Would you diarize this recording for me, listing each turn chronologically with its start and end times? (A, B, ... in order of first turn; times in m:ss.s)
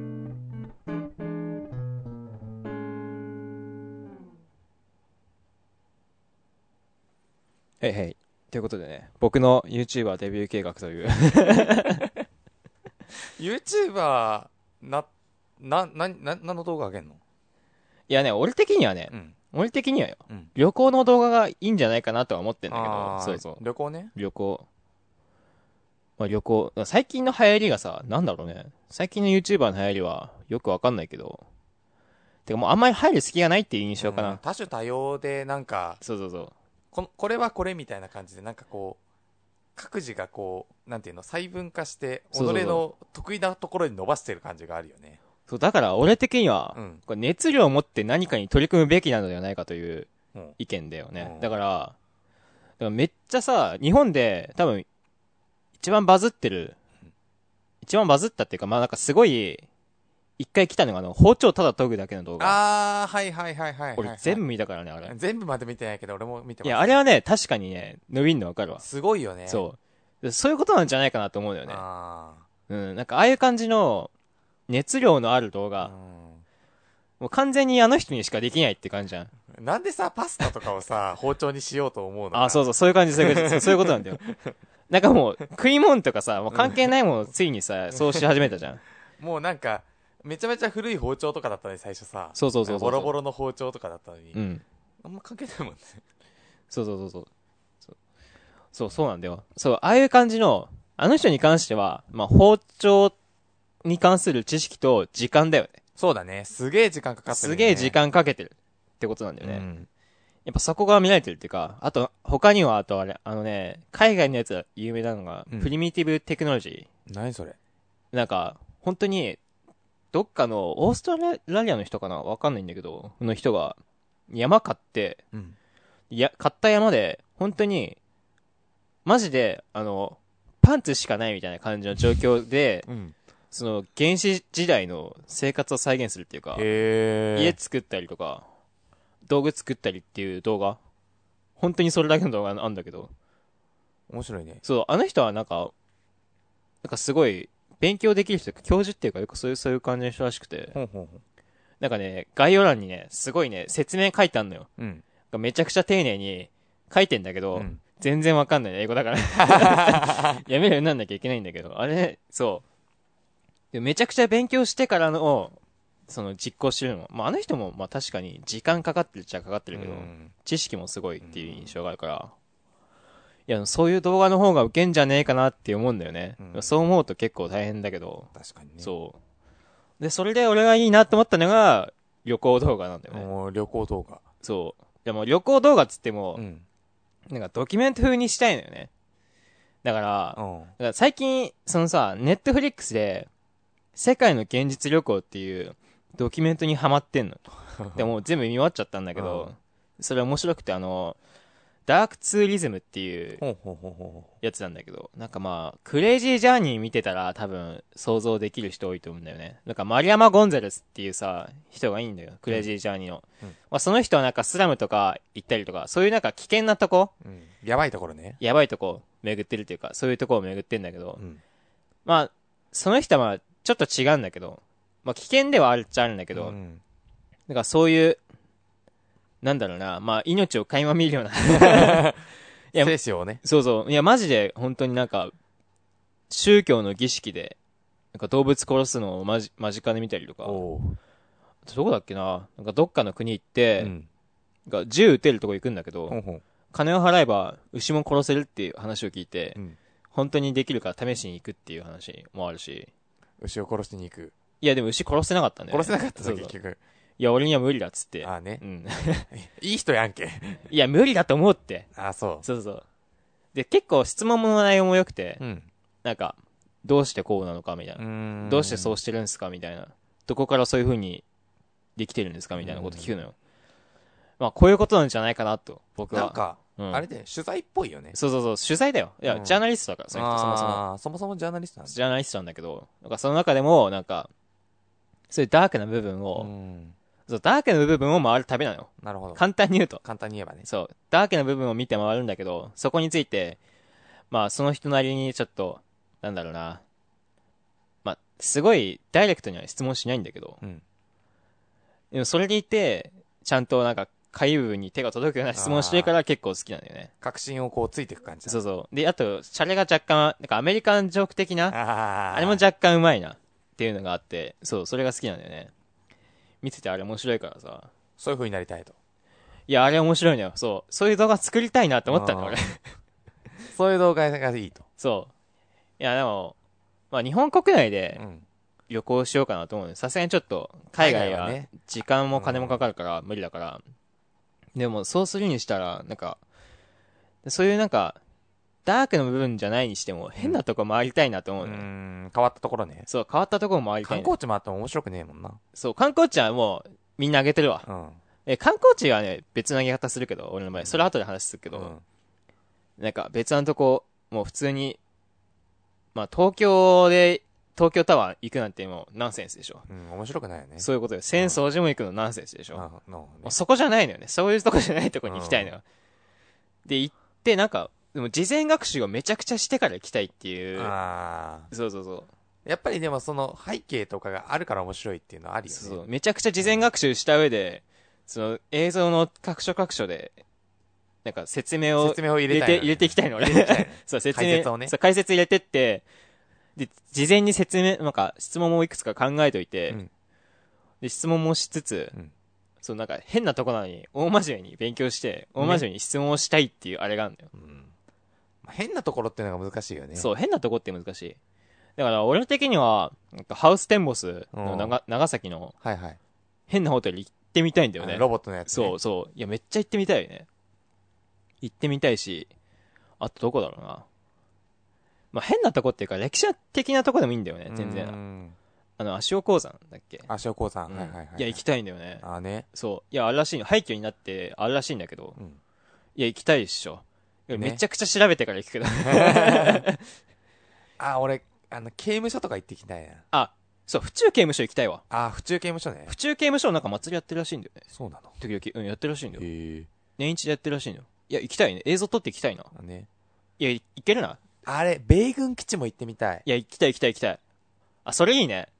0:07.8-0:12.0 A
0:13.4-0:15.1 B
0:15.6-0:17.2 B
0:18.1-0:23.6 A
0:19.1-0:19.4 B
0:22.7-0:24.1 B
0:24.2-0:24.7 A
0:26.2-0:31.4 A
0:32.5-0:34.4 A
0:34.0-0:36.0 B
0:36.0-0:36.5 A
0:36.9-0:39.0 B
0:39.8-0:45.2 B
0:42.3-0:42.8 A
0:45.5-0:52.0 A
0:46.8-0:47.0 B
0:51.2-0:51.5 B
0:52.8-0:54.9 A
0:55.8-0:56.8 A
0:57.8-0:59.7 A
1:00.4-1:02.6 A
1:02.4-1:04.4 B
1:04.0-1:05.1 A
1:05.1-1:07.0 B
1:06.6-1:08.8 A
1:08.8-1:09.7 B
1:09.5-1:11.8 A
1:11.7-1:12.5 B
1:12.7-1:14.1 A
1:14.7-1:15.9 A
1:15.8-1:16.4 B
1:17.2-1:19.3 A
1:19.5-1:24.5 B
1:22.3-1:24.2 A
1:24.9-1:28.8 A
1:26.5-1:26.9 B
1:27.9-1:28.3 B
1:29.2-1:34.4 B
1:32.4-1:33.2 A
1:34.3-1:34.6 A
1:35.0-1:36.0 B
1:36.7-1:37.3 A
1:38.7-1:43.2 A
1:43.8-1:45.8 A
1:46.0-1:48.0 B
1:47.3-1:49.6 A
1:49.4-1:49.9 B
1:50.4-1:56.9 A
1:57.1-1:57.6 B
1:58.1-1:59.4 A
2:00.1-2:03.8 A
2:04.3-2:05.2 A
2:06.1-2:08.0 A
2:09.0-2:12.9 A
2:12.9-2:13.2 B
2:13.5-2:16.7 A
2:16.6-2:17.6 B
2:17.3-2:18.5 A
2:19.3-2:20.8 A
2:21.6-2:23.1 A
2:24.1-2:24.6 B
2:24.6-2:25.7 A
2:26.8-2:30.8 A
2:30.7-2:31.2 B
2:31.8-2:34.7 A
2:34.8-2:35.0 B
2:35.3-2:42.6 A
2:37.6-2:37.8 B
2:39.4-2:40.4 B
2:43.7-2:52.3 A
2:49.7-2:50.3 B
2:51.2-2:51.8 B
2:53.5-2:59.2 A
2:56.4-2:56.7 B
2:58.4-2:58.9 B
3:00.0-3:03.3 A
3:03.1-3:04.2 B
3:04.4-3:06.4 A
3:06.4-3:06.7 B
3:07.3-3:08.9 A
3:09.8-3:13.3 A
3:10.4-3:10.7 B
3:14.0-3:17.4 A
3:17.7-3:18.1 B
3:18.0-3:21.2 A
3:19.2-3:19.5 B
3:21.9-3:23.4 A
3:23.4-3:24.3 B
3:24.4-3:37.1 A
3:37.2-3:38.4 B
3:38.4-3:41.2 A
3:42.0-3:46.6 A
3:46.3-3:46.8 B
3:47.5-3:48.2 A
3:49.4-3:52.1 A
3:51.6-3:52.2 B
3:52.7-3:55.3 A
3:52.8-3:53.4 B
3:56.3-3:57.6 A
3:58.1-4:00.6 A
4:00.4-4:01.0 B
4:01.7-4:03.9 A
4:03.8-4:04.1 B
4:04.7-4:06.2 A
4:06.1-4:06.4 B
4:06.7-4:09.6 A
4:10.1-4:12.9 A
4:13.4-4:14.4 B
4:14.6-4:16.5 A
4:15.7-4:16.8 B
4:17.2-4:19.3 A
4:18.2-4:18.6 B
4:19.3-4:20.7 B
4:20.7-4:21.9 A
4:22.0-4:22.4 B
4:22.4-4:22.8 A
4:23.5-4:25.4 A
4:25.4-4:25.7 B
4:26.0-4:31.2 A
4:28.0-4:29.0 B
4:32.0-4:33.3 A
4:32.6-4:33.2 B
4:34.4-4:37.0 A
4:36.1-4:38.2 B
4:38.1-4:40.8 A
4:39.3-4:39.6 B
4:40.1-4:42.0 B
4:41.9-4:44.3 A
4:45.3-4:46.5 A
4:46.4-4:47.0 B
4:47.3-4:50.0 A
4:49.0-4:49.4 B
4:50.0-4:50.7 B
4:50.7-4:53.6 A
4:54.3-4:56.8 A
4:58.0-5:00.6 A
5:02.1-5:07.1 A
5:05.5-5:06.2 B
5:07.2-5:08.6 B
5:08.5-5:11.8 A
5:11.7-5:12.6 B
5:12.3-5:15.7 A
5:16.6-5:17.9 A
5:18.2-5:19.0 B
5:19.7-5:22.8 A
5:22.1-5:22.6 B
5:23.7-5:24.9 B
5:25.0-5:25.3 A
5:26.0-5:26.6 A
5:27.1-5:28.2 A
5:28.2-5:28.5 B
5:28.9-5:33.8 A
5:31.0-5:31.7 B
5:32.3-5:32.8 B
5:34.8-5:36.4 A
5:37.4-5:38.2 A
5:38.8-5:41.9 A
5:41.6-5:43.1 B
5:43.1-5:44.3 A
5:44.0-5:45.6 B
5:45.8-5:47.9 A
5:47.9-5:48.2 B
5:48.4-5:52.0 A
5:50.8-5:51.0 B
5:51.7-5:52.0 B
5:53.0-5:55.0 A
5:56.2-5:59.9 A
5:59.9-6:01.6 B
6:00.8-6:02.8 A
6:02.7-6:03.6 B
6:03.4-6:05.8 A
6:05.3-6:05.7 B
6:06.9-6:10.9 A
6:10.8-6:11.7 B
6:11.7-6:12.3 A
6:12.6-6:16.0 B
6:15.7-6:20.4 A
6:16.6-6:16.9 B
6:21.2-6:26.0 A
6:22.0-6:25.0 B
6:26.8-6:30.0 A
6:31.0-6:32.2 A
6:32.8-6:37.5 A
6:35.6-6:35.9 B
6:37.5-6:37.9 B
6:38.6-6:40.3 B
6:40.2-6:41.4 A
6:42.0-6:45.8 A
6:44.5-6:45.0 B
6:45.8-6:46.2 B
6:46.7-6:50.5 A
6:48.0-6:49.0 B
6:51.6-6:52.5 A
6:53.2-6:54.1 A
6:55.3-6:58.2 A
6:57.7-6:58.6 B
6:59.0-7:00.3 A
7:00.3-7:01.6 B
7:00.9-7:05.4 A
7:02.2-7:02.7 B
7:06.2-7:10.0 A
7:07.5-7:07.8 B
7:09.0-7:09.8 B
7:11.0-7:13.2 B
7:13.3-7:15.0 A
7:15.1-7:16.1 B
7:16.1-7:17.8 A
7:17.9-7:18.4 B
7:18.4-7:19.4 A
7:19.4-7:19.9 B
7:20.2-7:22.7 A
7:22.7-7:23.1 B
7:23.6-7:24.4 A
7:24.6-7:26.5 B
7:26.4-7:27.4 A
7:28.0-7:28.7 A